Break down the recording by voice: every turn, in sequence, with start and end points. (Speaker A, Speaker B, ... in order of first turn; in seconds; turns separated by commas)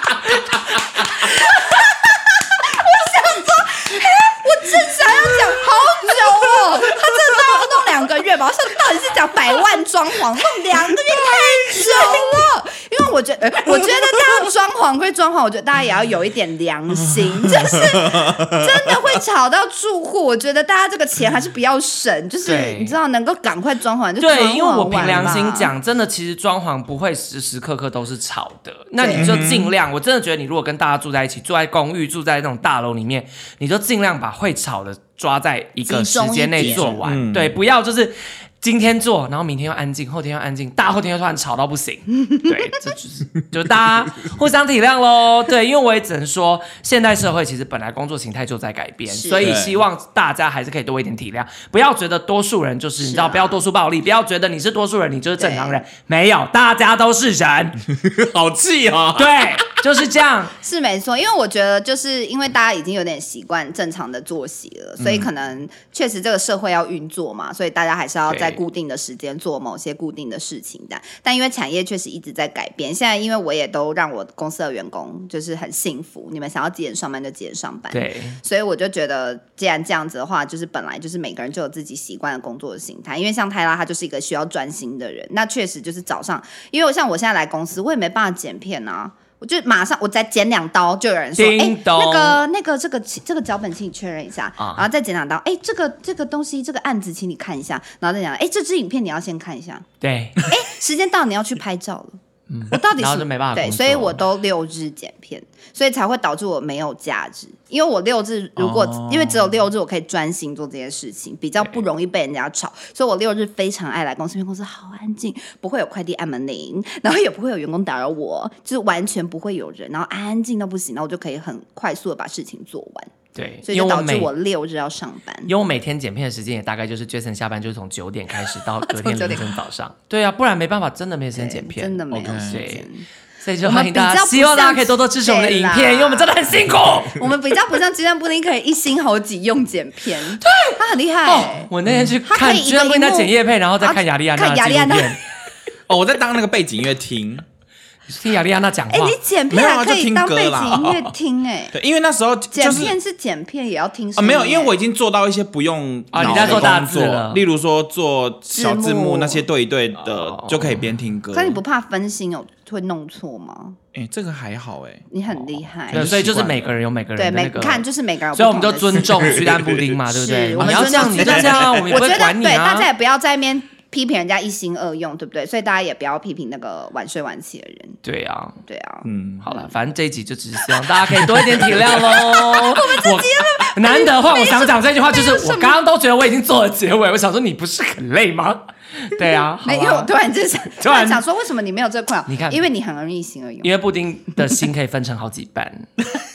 Speaker A: 1.0-25.7, Speaker B: 11.7-12.0, Speaker B: 17.0-19.0, Speaker C: 22.4-23.0, Speaker C: 24.2-57.8, Speaker B: 25.0-25.4, Speaker A: 29.0-29.3, Speaker B: 29.1-29.7, Speaker A: 35.9-37.0, Speaker B: 36.6-37.5, Speaker A: 49.1-49.5, Speaker B: 49.4-49.8, Speaker A: 53.0-53.6, Speaker A: 55.4-55.8, Speaker B: 57.9-59.3, Speaker C: 59.2-60.5, Speaker A: 60.6-99.8, Speaker B: 65.0-65.3, Speaker C: 68.3-68.6, Speaker C: 77.9-78.4, Speaker C: 91.4-92.4, Speaker C: 94.6-94.8, Speaker C: 100.0-100.4, Speaker A: 100.4-102.2, Speaker C: 102.5-104.2, Speaker A: 102.7-123.1, Speaker B: 108.6-109.5, Speaker C: 123.3-124.3, Speaker A: 123.7-125.5, Speaker C: 125.5-132.9, Speaker A: 129.0-129.5, Speaker A: 131.4-133.1, Speaker B: 132.3-132.6, Speaker C: 133.4-137.2, Speaker A: 133.6-141.7, Speaker C: 140.4-145.2, Speaker B: 141.9-142.1, Speaker A: 142.3-145.2, Speaker B: 145.9-147.4, Speaker C: 148.1-149.2, Speaker A: 148.9-151.8, Speaker B: 149.5-151.1, Speaker B: 151.7-153.0, Speaker A: 152.5-154.7, Speaker B: 154.2-161.6, Speaker C: 156.1-157.4, Speaker A: 156.2-156.7, Speaker A: 158.6-159.4, Speaker C: 160.1-160.8, Speaker A: 161.3-163.8, Speaker B: 163.9-165.1, Speaker A: 165.1-166.2, Speaker B: 165.9-166.6, Speaker C: 165.9-172.9, Speaker A: 167.2-169.4, Speaker B: 169.2-169.9, Speaker A: 170.1-178.0, Speaker B: 170.6-171.9, Speaker C: 178.0-178.6, Speaker A: 178.7-179.7, Speaker B: 179.1-179.4, Speaker C: 179.4-190.1, Speaker A: 182.1-185.8, Speaker A: 189.6-193.7, Speaker C: 190.8-191.2, Speaker C: 192.3-192.7, Speaker C: 193.6-195.9